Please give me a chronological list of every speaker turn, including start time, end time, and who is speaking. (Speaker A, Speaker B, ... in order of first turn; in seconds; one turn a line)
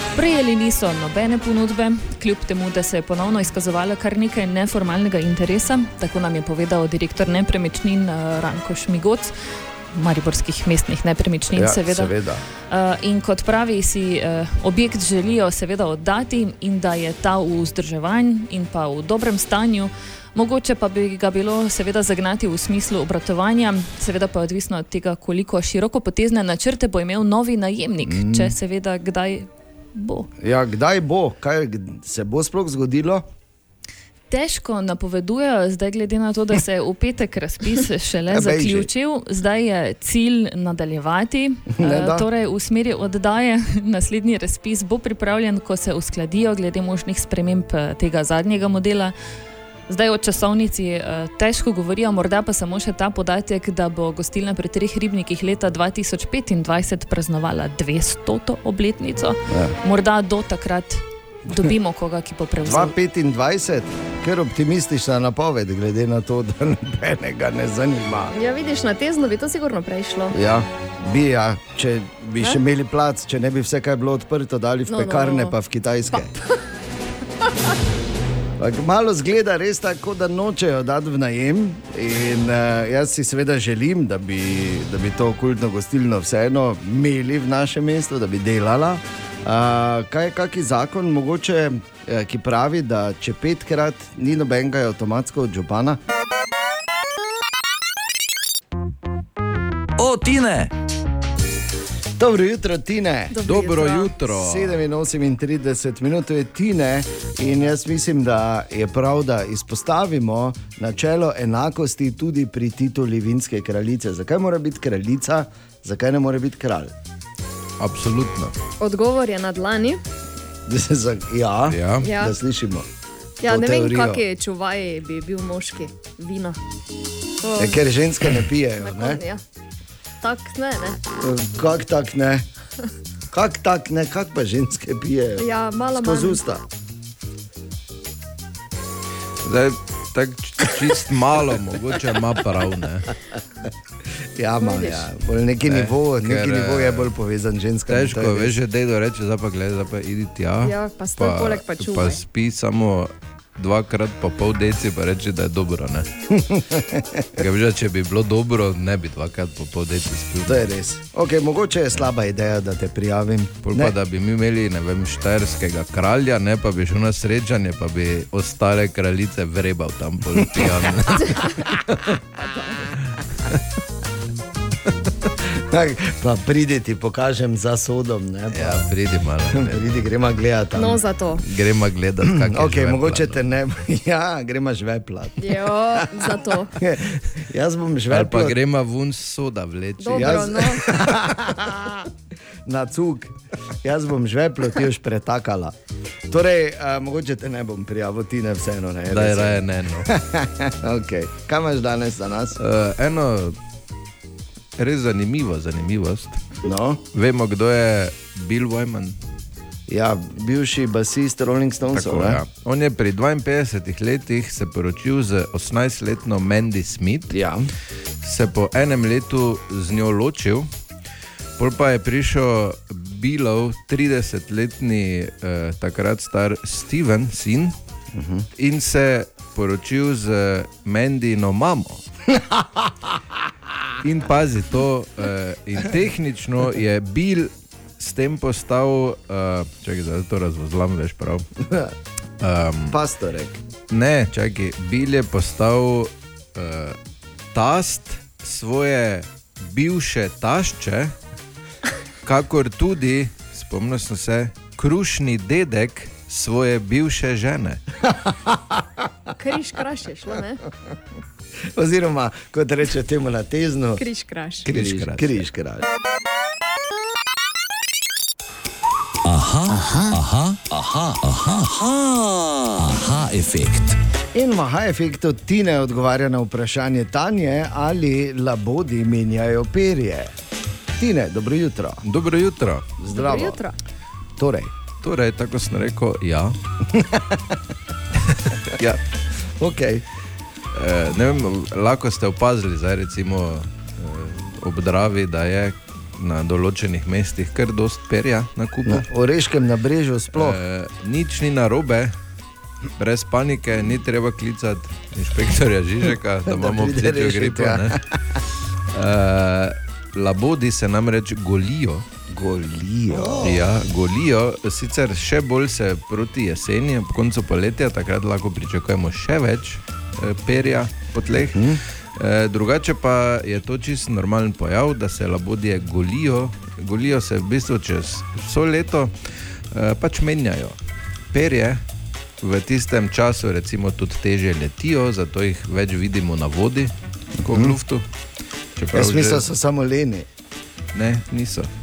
Speaker A: 0.1-9.3
Speaker A: 9.9-12.1
Speaker B: 11.5-12.4
Speaker A: 12.7-30.3
Speaker B: 28.0-28.5
Speaker B: 30.4-33.2
Speaker A: 34.3-49.1
Speaker B: 38.3-38.9
Speaker B: 41.7-42.2
Speaker A: 49.9-62.9
Speaker B: 59.5-59.8
Speaker B: 62.6-68.3
Speaker C: 68.3-70.3
Speaker B: 70.3-76.3
Speaker C: 74.9-75.5
Speaker B: 78.6-96.0
Speaker D: 100.0-100.7
Speaker B: 102.2-103.4
Speaker C: 103.3-104.1
Speaker E: 103.4-104.8
Speaker B: 104.3-116.9
Speaker E: 117.8-118.5
Speaker C: 118.8-120.0
Speaker B: 120.7-122.9
Speaker E: 121.7-122.1
Speaker C: 122.0-122.3
Speaker C: 123.4-126.6
Speaker B: 123.4-124.2
Speaker C: 127.4-127.8
Speaker B: 127.6-129.2
Speaker C: 128.8-129.4
Speaker C: 130.2-131.0
Speaker B: 131.2-132.4
Speaker B: 133.3-136.6
Speaker C: 135.4-136.4
Speaker E: 139.4-143.1
Speaker B: 144.4-148.6
Speaker C: 144.6-145.1
Speaker E: 145.7-147.1
Speaker E: 147.9-156.1
Speaker C: 150.6-152.2
Speaker B: 156.3-157.4
Speaker E: 157.4-160.7
Speaker B: 160.5-163.9
Speaker E: 163.6-171.6
Speaker B: 170.4-170.7
Speaker B: 171.7-172.0
Speaker C: 172.3-172.9
Speaker B: 175.5-178.8
Speaker E: 178.5-179.9
Speaker B: 179.5-181.0
Speaker C: 180.7-181.4
Speaker E: 181.4-183.4
Speaker B: 182.2-188.6
Speaker C: 185.4-186.7
Speaker E: 188.1-190.9
Speaker C: 190.0-190.8
Speaker B: 190.1-192.1
Speaker B: 192.7-195.8
Speaker B: 196.3-202.6
Speaker E: 199.1-200.1
Speaker E: 202.6-203.6
Speaker E: 204.8-206.4
Speaker B: 206.6-207.0
Speaker E: 207.1-209.2
Speaker B: 209.9-212.4
Speaker E: 211.9-217.4
Speaker B: 217.3-217.7
Speaker E: 218.2-220.7
Speaker E: 221.6-227.7
Speaker B: 228.1-228.5
Speaker E: 228.6-232.0
Speaker E: 234.0-241.4
Speaker B: 241.6-241.9
Speaker E: 242.4-243.0
Speaker B: 242.9-243.6
Speaker E: 243.9-247.0
Speaker E: 247.5-251.1
Speaker E: 252.2-257.8
Speaker B: 258.1-259.0
Speaker C: 259.4-260.6
Speaker B: 261.7-264.0
Speaker C: 264.0-264.7
Speaker E: 264.6-265.4
Speaker B: 264.7-265.9
Speaker D: 269.2-274.0
Speaker B: 274.3-280.3
Speaker B: 281.0-282.0
Speaker E: 282.0-282.9
Speaker B: 283.0-283.6
Speaker C: 283.1-283.7
Speaker B: 284.4-284.7
Speaker E: 285.0-286.6
Speaker B: 286.9-287.6
Speaker E: 288.7-289.0
Speaker B: 289.6-290.0
Speaker E: 290.7-299.1
Speaker B: 298.9-300.6
Speaker E: 300.3-302.1
Speaker E: 303.0-308.0
Speaker B: 306.4-308.4
Speaker E: 308.9-312.0
Speaker B: 312.3-313.6
Speaker E: 313.4-330.8
Speaker B: 321.5-321.8
Speaker E: 331.3-331.8
Speaker E: 332.4-338.0
Speaker B: 337.4-337.8
Speaker E: 338.8-339.4
Speaker B: 338.9-340.3
Speaker E: 340.9-341.7